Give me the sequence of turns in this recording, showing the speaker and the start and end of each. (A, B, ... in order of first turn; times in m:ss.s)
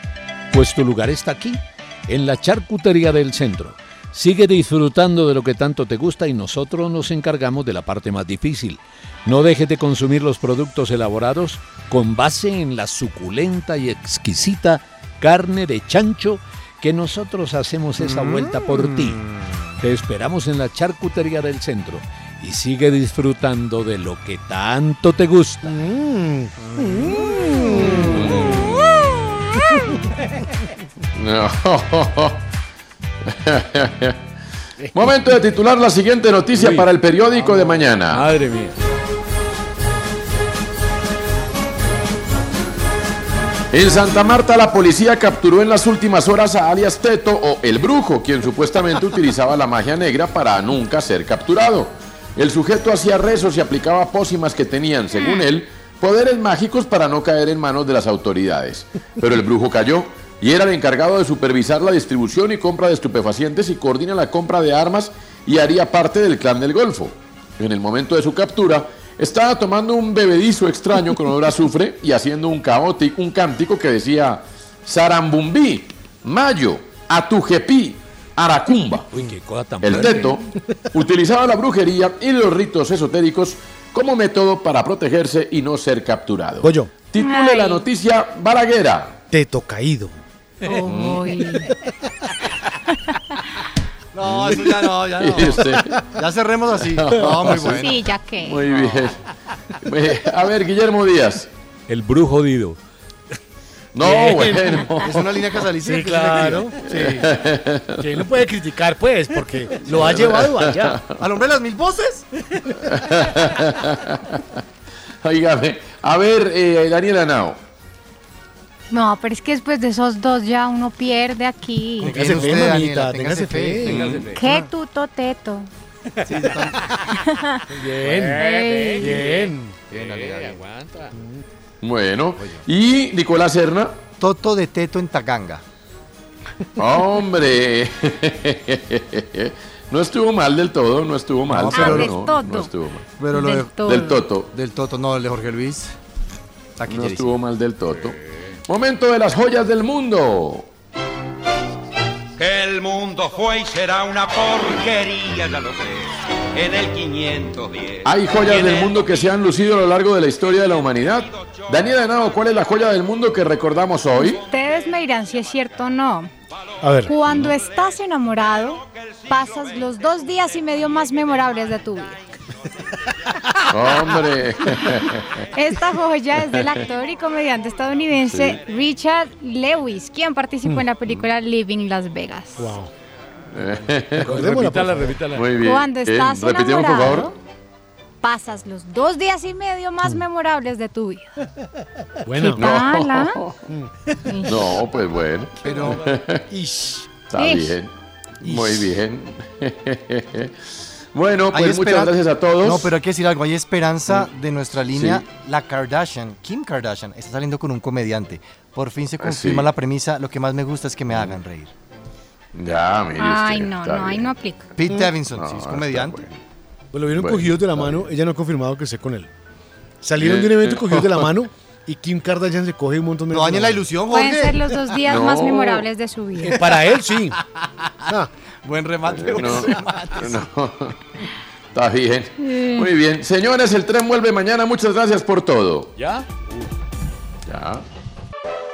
0:00.5-0:19.2 A
0:19.8-0:25.7 A
0:25.7-0:28.6 B
0:27.8-0:29.1 C
0:31.1-0:32.4 C
0:33.3-0:34.2 C
0:34.9-0:38.3 C
0:36.6-0:36.9 A
0:38.0-0:38.8 A
0:43.7-1:19.1 C
0:55.2-0:55.4 D
1:19.1-1:20.3 A
1:19.8-1:29.2 C
1:26.6-1:26.9 B
1:27.2-1:27.8 D
1:29.3-1:30.2 B
1:30.7-1:31.7 D
1:30.8-1:31.3 C
1:34.1-1:38.1 E
1:34.2-1:34.6 C
1:35.2-1:36.0 C
1:36.8-1:37.9 C
1:37.7-1:38.7 D
1:38.4-1:39.2 C
1:38.8-1:39.1 E
1:39.8-1:41.5 C
1:41.9-1:42.8 A
1:43.9-1:45.2 C
1:44.5-1:44.8 B
1:45.0-1:46.7 E
1:45.9-1:47.3 B
1:46.9-1:48.1 C
1:48.0-1:51.0 B
1:49.9-1:51.2 C
1:51.2-1:52.2 E
1:52.9-1:54.4 C
1:55.2-1:57.6 C
1:58.9-2:02.2 D
2:02.0-2:04.6 E
2:02.0-2:04.1 B
2:03.8-2:04.3 C
2:03.9-2:04.4 A
2:04.3-2:05.7 D
2:06.2-2:06.8 E
2:07.2-2:07.6 D
2:07.8-2:09.8 B
2:07.8-2:11.1 A
2:08.3-2:09.2 D
2:09.9-2:10.6 E
2:11.1-2:11.4 B
2:11.8-2:14.0 C
2:12.4-2:12.6 E
2:14.2-2:15.6 E
2:16.8-2:23.1 C
2:21.5-2:22.1 E
2:21.7-2:22.7 D
2:23.2-2:23.8 E
2:23.3-2:24.2 D
2:23.8-2:24.5 C
2:24.5-2:25.9 E
2:26.8-2:27.3 E
2:26.9-2:28.2 C
2:28.7-2:30.7 C
2:32.4-2:39.0 F
2:38.0-2:44.4 C
2:44.1-2:46.3 D
2:46.8-2:47.1 B
2:47.0-2:52.2 D
2:53.7-2:55.4 C
2:55.5-3:02.7 D
2:56.4-2:56.8 C
2:58.3-2:58.6 C
3:02.6-3:02.9 B
3:03.5-3:04.3 C
3:04.1-3:05.2 B
3:04.2-3:05.5 A
3:05.3-3:07.3 C
3:05.6-3:07.3 D
3:08.2-3:11.3 D
3:12.2-3:12.7 B
3:12.4-3:13.4 D
3:12.6-3:13.5 C
3:14.3-3:14.5 D
3:14.5-3:16.4 C
3:15.6-3:16.0 E
3:16.5-3:17.0 B
3:17.3-3:17.9 C
3:17.4-3:17.8 D
3:18.4-3:20.5 C
3:18.4-3:18.7 E
3:21.1-3:22.9 C
3:21.5-3:31.7 E
3:24.9-3:25.2 C
3:29.2-3:29.7 C
3:32.5-3:34.3 C
3:33.2-3:34.7 D
3:34.8-3:36.2 E
3:35.3-3:36.3 C
3:36.9-3:39.3 B
3:37.1-3:37.9 C
3:40.0-3:43.8 B
3:40.2-3:41.3 C
3:43.3-3:44.7 E
3:44.1-3:46.6 D
3:45.0-3:45.9 C
3:46.5-3:47.4 B
3:48.6-3:50.4 E
3:49.0-3:51.0 C
3:51.7-3:55.9 C
3:52.4-3:52.8 D
3:56.0-3:56.6 A
3:57.4-3:57.8 C